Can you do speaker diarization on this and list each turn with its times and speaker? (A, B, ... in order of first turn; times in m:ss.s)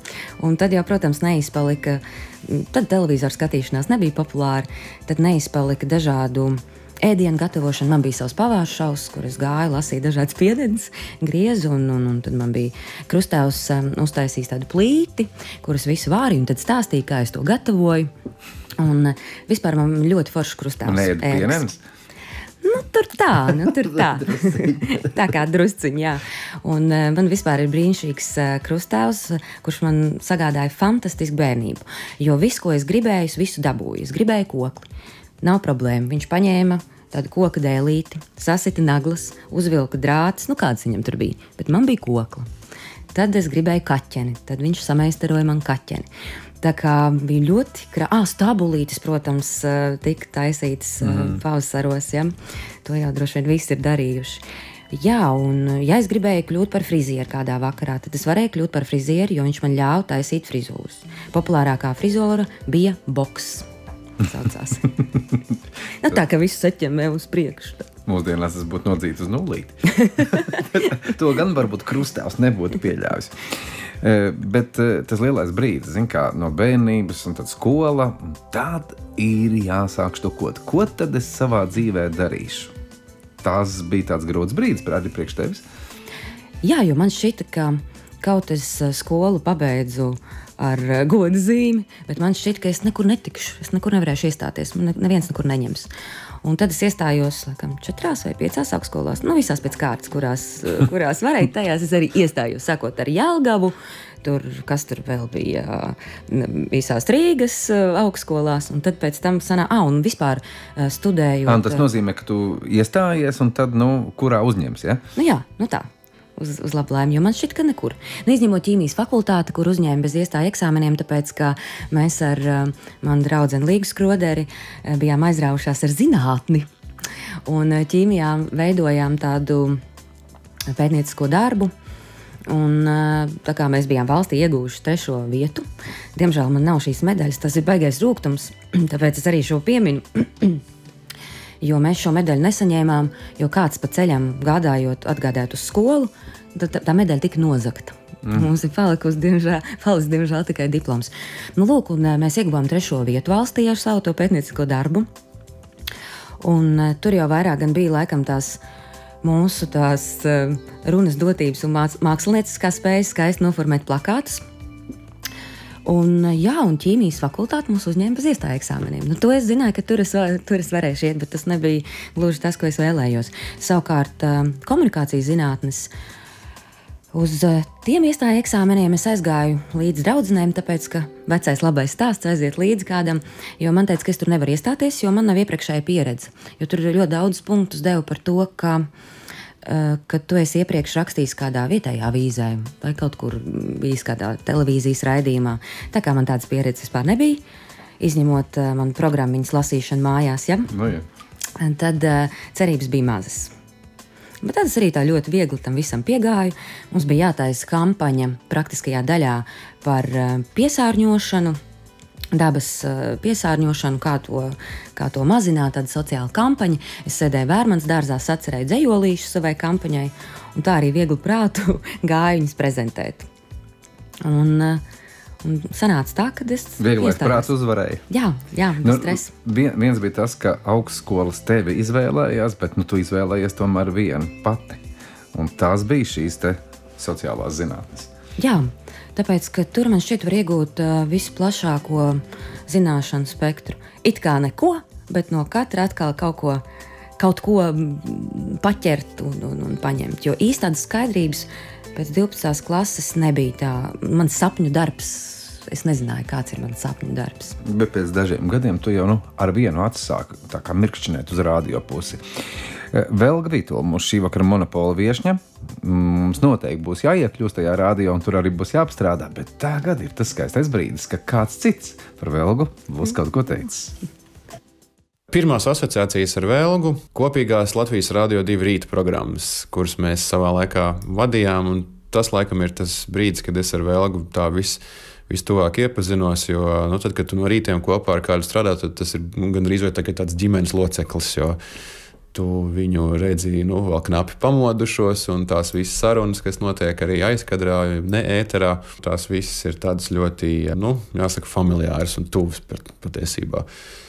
0:00.4-0:18.1 A
0:18.8-0:21.7 A
0:20.8-0:21.8 B
0:22.6-0:34.9 A
0:23.9-0:24.9 B
0:35.4-0:42.5 A
0:43.1-0:46.1 A
0:46.6-0:52.3 A
0:51.0-0:51.4 B
0:52.8-1:03.7 A
1:04.2-1:05.0 A
1:06.0-1:07.9 A
1:08.0-1:22.7 B
1:23.4-1:25.6 B
1:26.6-1:35.9 A
1:36.4-1:51.8 A
1:51.4-1:55.0 B
1:55.2-2:06.7 A
2:07.4-2:09.8 A
2:10.7-2:11.7 A
2:12.5-2:20.6 A
2:21.6-2:35.1 A
2:36.4-2:38.6 A
2:39.2-2:44.4 A
2:45.8-2:55.9 A
2:57.1-3:08.9 A
3:09.6-3:17.4 A
3:18.0-3:20.7 A
3:20.7-3:21.0 B
3:21.6-3:23.5 A
3:24.4-3:31.6 A
3:32.3-3:43.3 A
3:44.2-3:44.8 A
3:45.4-3:47.5 A
3:46.8-3:48.0 B
3:48.1-3:49.3 A
3:48.8-3:54.8 B
3:55.3-3:58.1 B
3:58.4-4:06.6 A
4:07.2-4:17.6 A
4:17.6-4:22.2 B
4:22.9-4:34.0 B
4:35.3-4:51.6 C
4:52.3-5:03.7 C